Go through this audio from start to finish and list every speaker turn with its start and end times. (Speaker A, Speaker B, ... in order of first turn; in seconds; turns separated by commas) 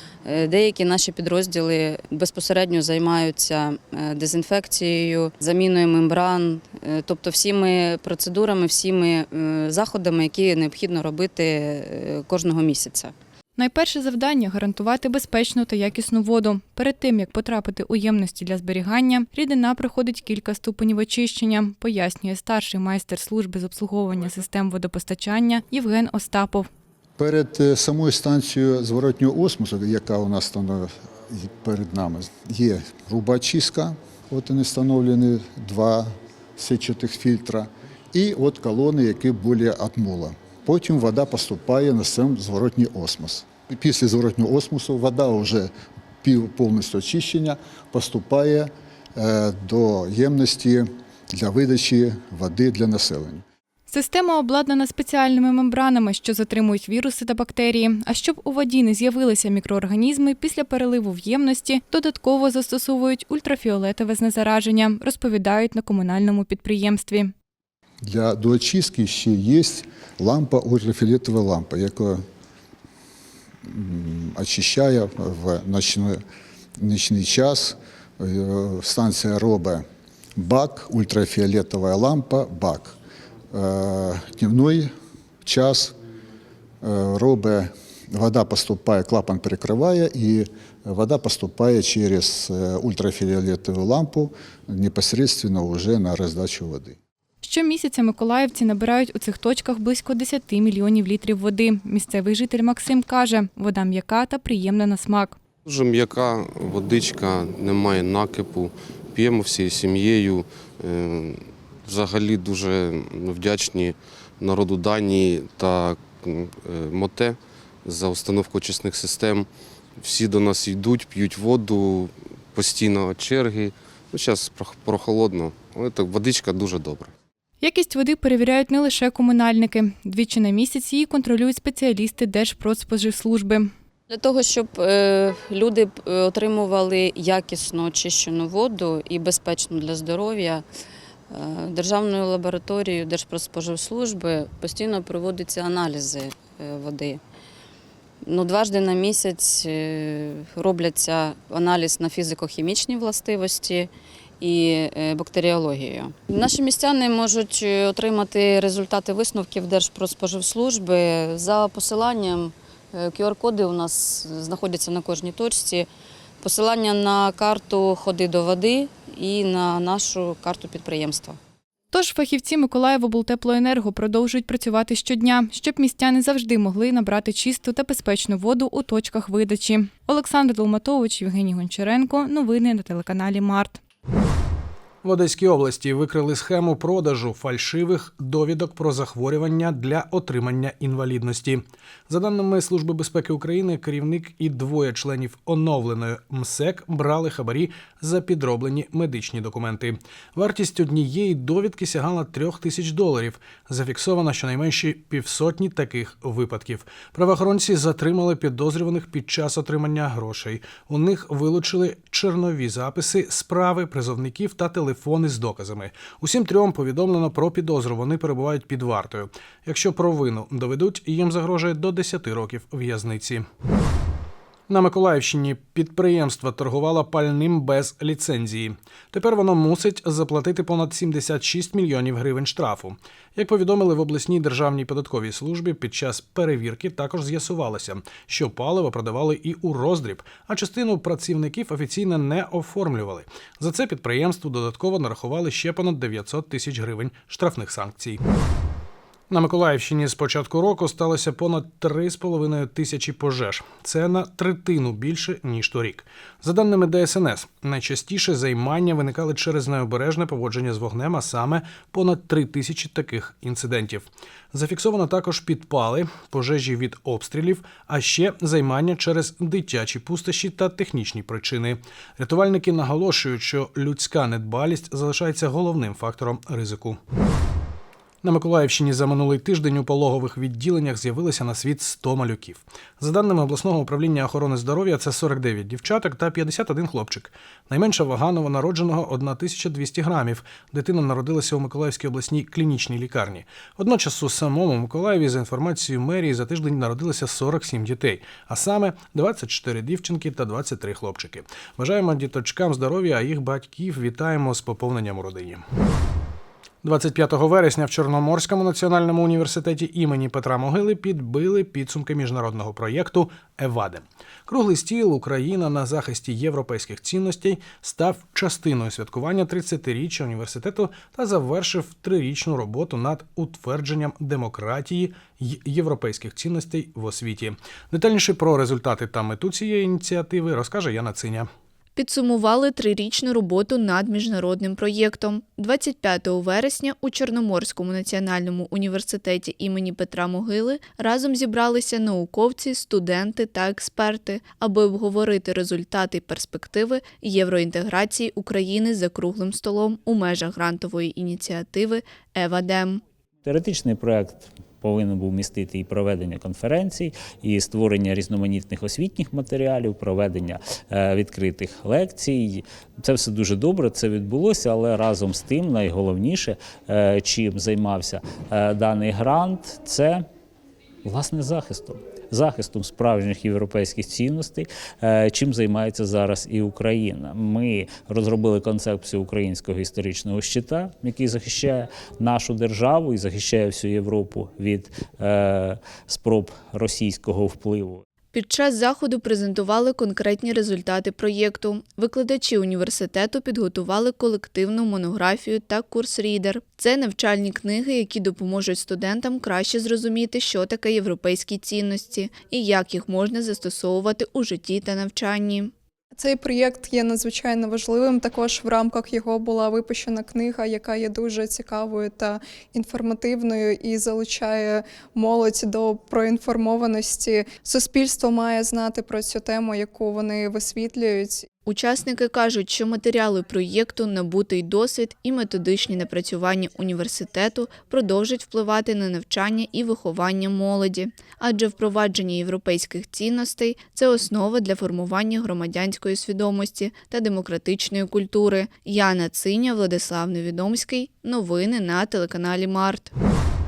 Speaker A: 0.2-13.1, Speaker B: 13.6-26.7, Speaker C: 27.2-45.7, Speaker C: 46.2-53.4, Speaker B: 53.9-67.3, Speaker C: 68.0-72.2, Speaker C: 73.7-76.2, Speaker C: 76.8-79.8, Speaker C: 80.4-83.0, Speaker C: 83.5-84.9, Speaker C: 85.5-85.9, Speaker C: 86.8-97.0, Speaker B: 97.4-105.4, Speaker D: 105.7-119.5, Speaker D: 120.0-127.1, Speaker B: 127.6-133.7, Speaker A: 134.1-140.6, Speaker A: 141.3-147.2, Speaker A: 148.2-153.9, Speaker A: 154.4-165.9, Speaker A: 166.4-171.4, Speaker B: 171.9-183.8, Speaker E: 185.0-223.4, Speaker E: 224.7-248.2, Speaker E: 249.3-277.0, Speaker E: 278.2-305.6, Speaker E: 306.8-331.5, Speaker F: 332.0-353.0, Speaker G: 353.4-370.3, Speaker G: 371.0-388.1, Speaker F: 388.3-405.7, Speaker H: 406.2-421.4, Speaker F: 421.7-443.1